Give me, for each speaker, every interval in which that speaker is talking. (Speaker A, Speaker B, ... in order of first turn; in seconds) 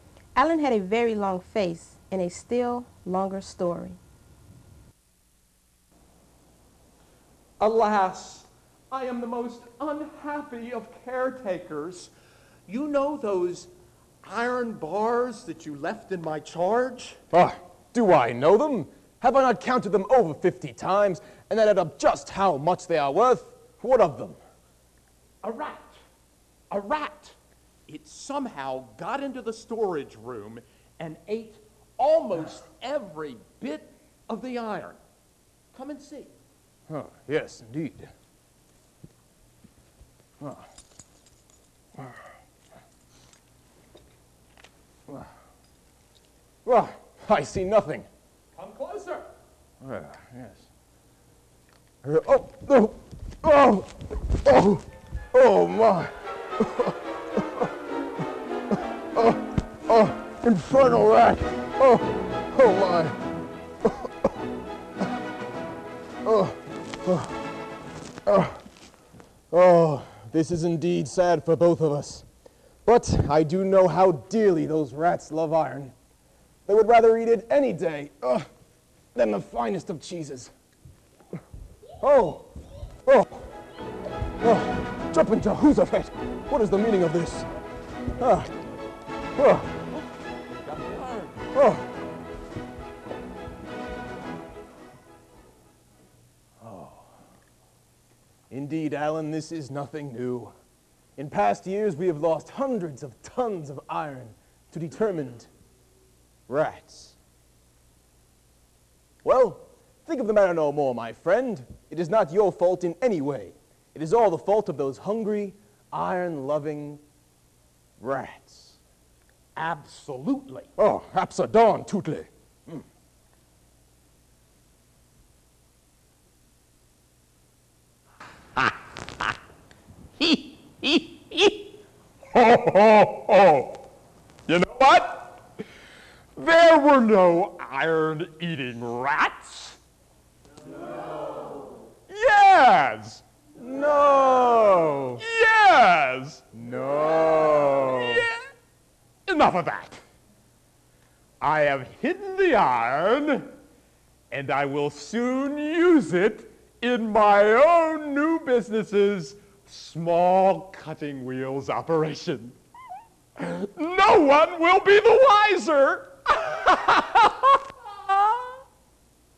Speaker A: 0.3-4.0
Speaker B: 7.6-12.1, 12.7-13.7, 14.2-17.2, 25.4-26.0, 26.7-35.0, 35.7-36.3, 48.5-49.3, 90.6-91.4, 119.5-120.7, 130.2-131.5, 132.3-133.8, 134.5-135.4, 136.3-139.8, 142.1-143.2, 145.2-146.5, 148.0-148.3, 149.3-150.0, 151.4-153.5, 154.3-162.6, 163.4-168.4
Speaker C: 17.3-24.4, 36.9-38.1, 40.4-40.7, 46.6-48.1, 49.8-50.7, 52.0-57.7, 59.1-63.2, 63.8-64.3, 66.2-67.4, 68.2-68.6, 69.5-72.2, 72.8-75.9, 76.7-78.5, 79.1-80.5, 82.0-82.5, 83.0-83.4, 84.4-87.5, 88.2-88.5, 89.4-89.8, 91.5-91.9, 96.6-97.1, 98.5-100.5, 101.2-105.5, 106.5-107.2, 109.2-117.0, 118.0-118.8, 120.8-122.8, 143.6-145.2, 146.5-148.2